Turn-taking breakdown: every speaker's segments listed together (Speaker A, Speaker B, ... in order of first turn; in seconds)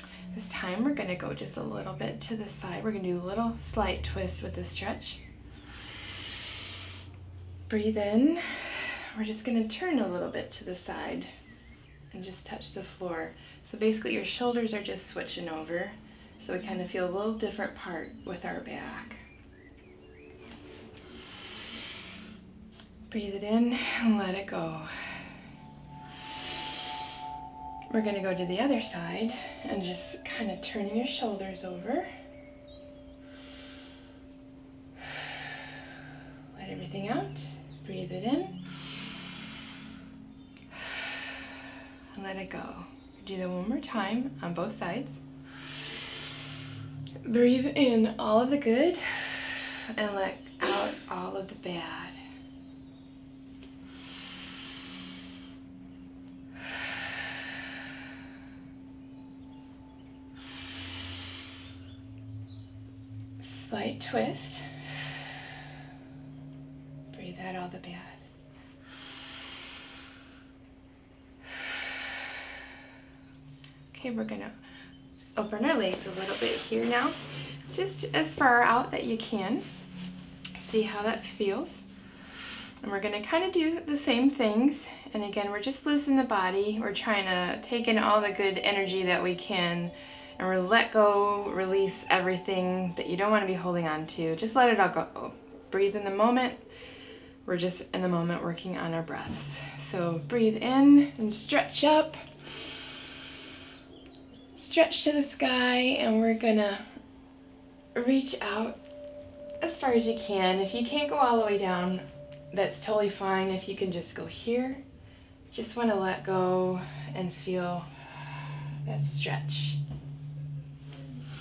Speaker A: 0.3-5.2, 7.7-11.3, 12.1-19.2, 23.1-25.2, 27.9-32.1, 36.5-38.6, 40.9-41.1, 42.1-45.2, 47.2-52.2, 63.4-64.7, 67.1-68.2, 73.9-74.5, 75.4-77.2, 77.7-79.7, 80.6-81.8, 82.8-96.6, 97.5-102.2, 104.5-106.9, 108.0-108.8, 109.6-114.8, 115.5-119.8